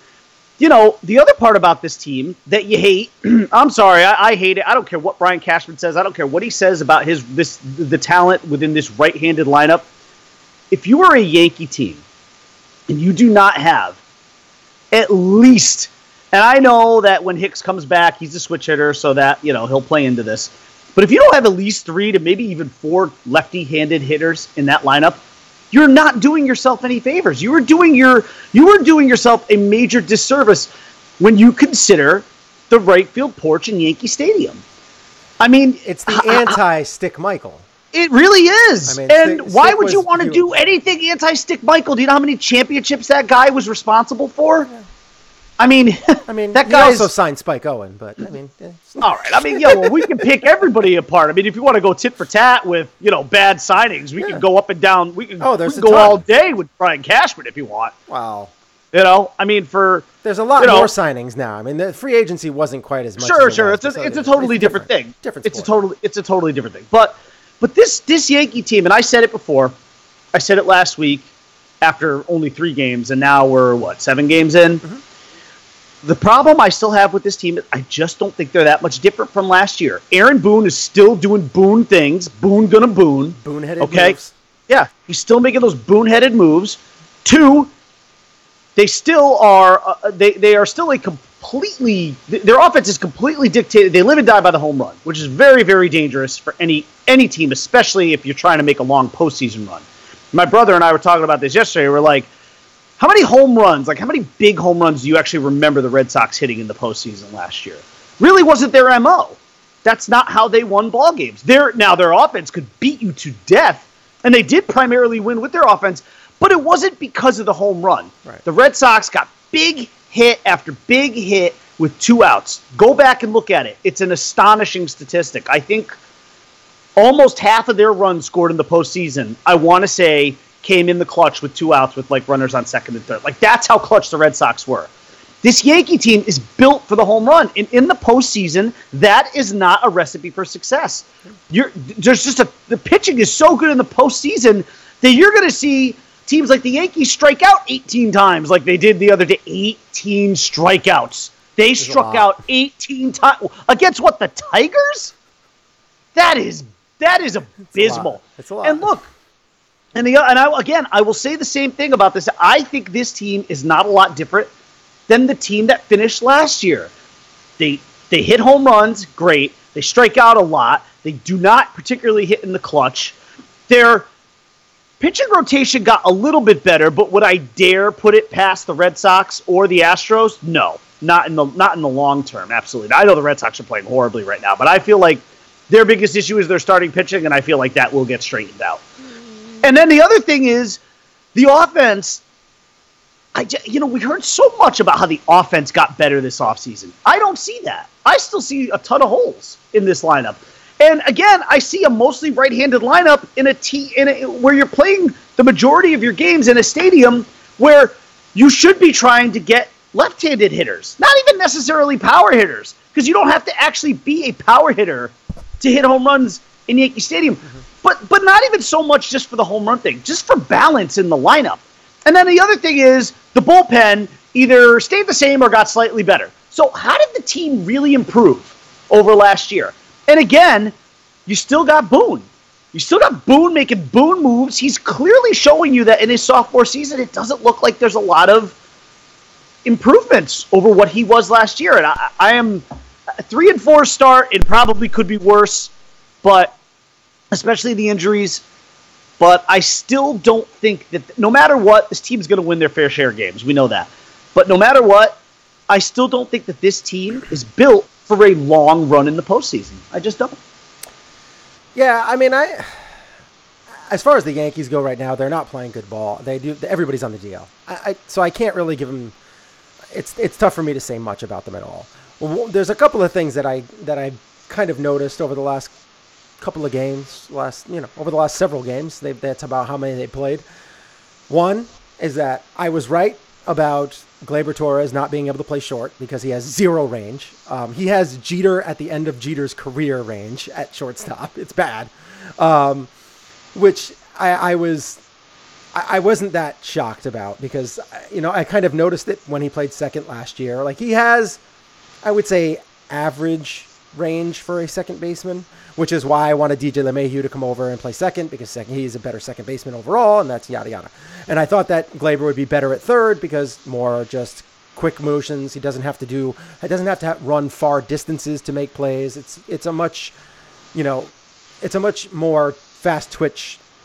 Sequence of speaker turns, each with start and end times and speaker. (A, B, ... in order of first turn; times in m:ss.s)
0:00.6-0:09.9 A
0:10.7-0:12.0 A
0:12.9-0:14.0 A
0:14.9-0:25.2 A
0:25.7-0:34.6 A
0:35.4-0:36.6 A
0:35.8-0:37.6 B
0:37.9-0:44.7 A
0:38.9-0:40.5 B
0:45.6-0:47.1 A
0:46.3-0:50.2 B
0:49.0-0:57.9 A
0:55.4-0:56.2 B
0:58.1-0:58.5 B
0:58.9-1:00.1 A
1:00.2-1:05.7 B
1:00.6-1:00.9 A
1:03.2-1:09.8 A
1:10.3-1:11.3 A
1:11.8-1:14.8 A
1:16.0-1:24.2 A
1:23.4-1:24.3 B
1:24.7-1:27.7 A
1:28.8-1:42.3 A
1:43.0-2:06.0 A
2:07.0-2:14.9 A
2:15.4-2:35.1 A
2:31.8-2:32.3 B
2:36.2-2:39.0 A
2:37.7-2:39.1 B
2:40.0-2:44.5 A
2:45.1-2:46.9 A
2:47.6-2:53.2 A
2:53.7-2:54.1 A
2:55.0-3:08.8 A
3:09.6-3:10.8 A
3:11.4-3:12.2 A
3:13.4-3:50.7 A
3:51.3-3:58.6 A
3:59.6-4:02.6 A
4:03.2-4:05.7 A
4:06.2-4:06.6 A
4:07.3-4:08.4 A
4:09.2-4:15.2 A
4:15.7-4:20.4 A
4:21.8-4:22.8 B
4:23.8-4:29.1 B
4:29.9-4:35.7 B
4:36.4-4:40.4 B
4:41.3-4:52.9 B
4:53.6-4:55.0 B
4:55.7-5:01.4 B
5:02.0-5:20.2 B
5:20.7-5:23.6 B